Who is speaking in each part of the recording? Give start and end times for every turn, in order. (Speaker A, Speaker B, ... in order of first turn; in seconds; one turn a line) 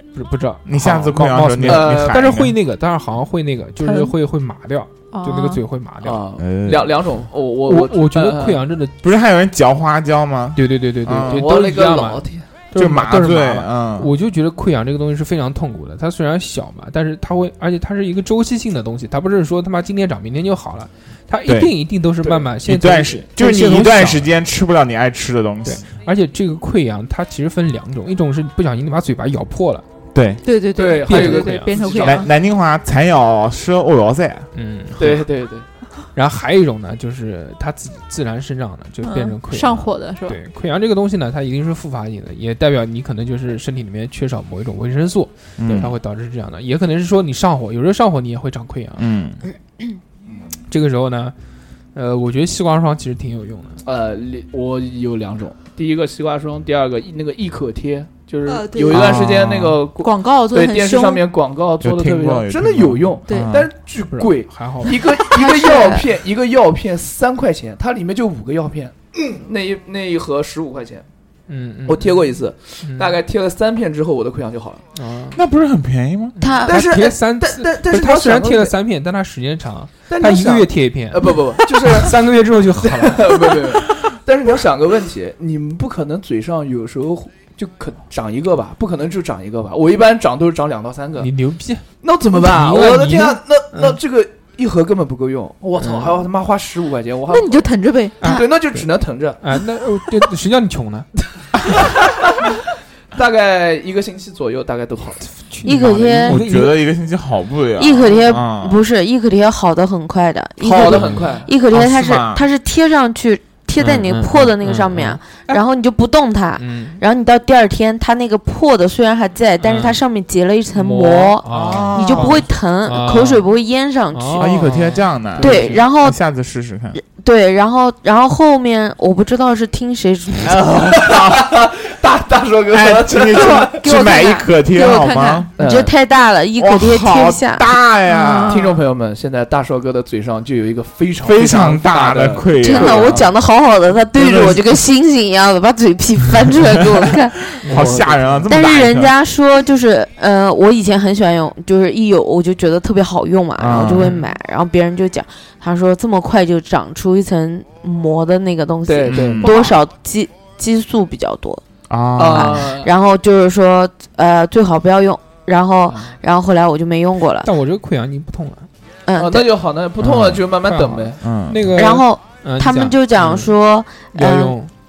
Speaker A: 0.1-6.2
Speaker B: 0.7-2.5
Speaker C: 1.6-2.2
Speaker D: 3.8-4.1
Speaker D: 5.1-5.6
Speaker C: 6.0-8.6
Speaker B: 6.4-6.9
Speaker A: 7.7-9.0
Speaker B: 9.0-11.4
Speaker A: 10.5-24.3
Speaker C: 11.2-12.4
Speaker B: 12.7-14.1
Speaker B: 21.4-21.8
Speaker B: 22.6-25.9
Speaker A: 25.6-29.9
Speaker B: 30.1-30.4
Speaker D: 30.4-32.3
Speaker C: 30.8-32.3
Speaker A: 31.1-32.0
Speaker B: 32.0-34.5
Speaker A: 34.5-35.2
Speaker C: 35.0-35.7
Speaker A: 36.1-49.1
Speaker D: 39.0-40.4
Speaker B: 45.6-45.9
Speaker B: 49.0-49.4
Speaker A: 50.7-51.3
Speaker A: 51.9-53.8
Speaker C: 53.8-71.0
Speaker D: 58.5-59.2
Speaker B: 58.9-59.8
Speaker D: 60.0-61.2
Speaker B: 61.8-63.7
Speaker A: 64.1-65.0
Speaker E: 65.3-66.0
Speaker A: 71.5-72.2
Speaker C: 71.8-74.8
Speaker A: 72.8-73.2
Speaker A: 74.9-75.4
Speaker B: 75.3-76.3
Speaker E: 76.4-76.8
Speaker A: 76.4-83.6
Speaker C: 76.7-78.7
Speaker C: 80.1-82.2
Speaker C: 82.8-91.3
Speaker A: 91.2-94.0
Speaker C: 92.0-97.7
Speaker A: 95.8-96.1
Speaker D: 97.3-98.4
Speaker A: 98.2-98.9
Speaker C: 98.2-99.4
Speaker A: 99.4-101.1
Speaker C: 101.9-102.1
Speaker C: 103.1-105.2
Speaker A: 105.4-106.8
Speaker E: 105.6-106.4
Speaker B: 106.2-108.8
Speaker E: 107.8-124.7
Speaker C: 110.6-111.5
Speaker B: 110.7-112.4
Speaker A: 113.8-115.6
Speaker A: 116.6-117.0
Speaker A: 119.6-120.0
Speaker A: 120.8-123.5
Speaker B: 121.5-122.4
Speaker A: 124.1-125.0
Speaker B: 124.4-127.0
Speaker C: 125.4-125.8
Speaker E: 125.4-126.2
Speaker E: 126.9-130.7
Speaker C: 130.4-133.8
Speaker B: 131.2-131.4
Speaker B: 132.7-135.5
Speaker D: 133.8-135.5
Speaker C: 135.6-135.9
Speaker E: 135.6-137.7
Speaker B: 136.6-138.6
Speaker D: 138.0-138.8
Speaker C: 138.5-143.3
Speaker B: 141.2-143.3
Speaker E: 142.6-147.6
Speaker B: 144.2-144.6
Speaker B: 147.1-149.1
Speaker A: 147.6-148.4
Speaker C: 147.7-148.3
Speaker E: 148.5-161.6
Speaker B: 153.6-154.2
Speaker C: 158.8-159.8
Speaker B: 159.1-159.6
Speaker B: 161.9-162.7
Speaker C: 162.2-162.9
Speaker E: 162.2-167.5
Speaker C: 165.9-166.2
Speaker A: 167.4-168.7
Speaker E: 169.1-169.5
Speaker C: 169.2-171.2
Speaker B: 170.0-170.4
Speaker A: 170.6-173.5
Speaker B: 171.2-171.8
Speaker E: 171.7-174.6
Speaker A: 174.1-174.7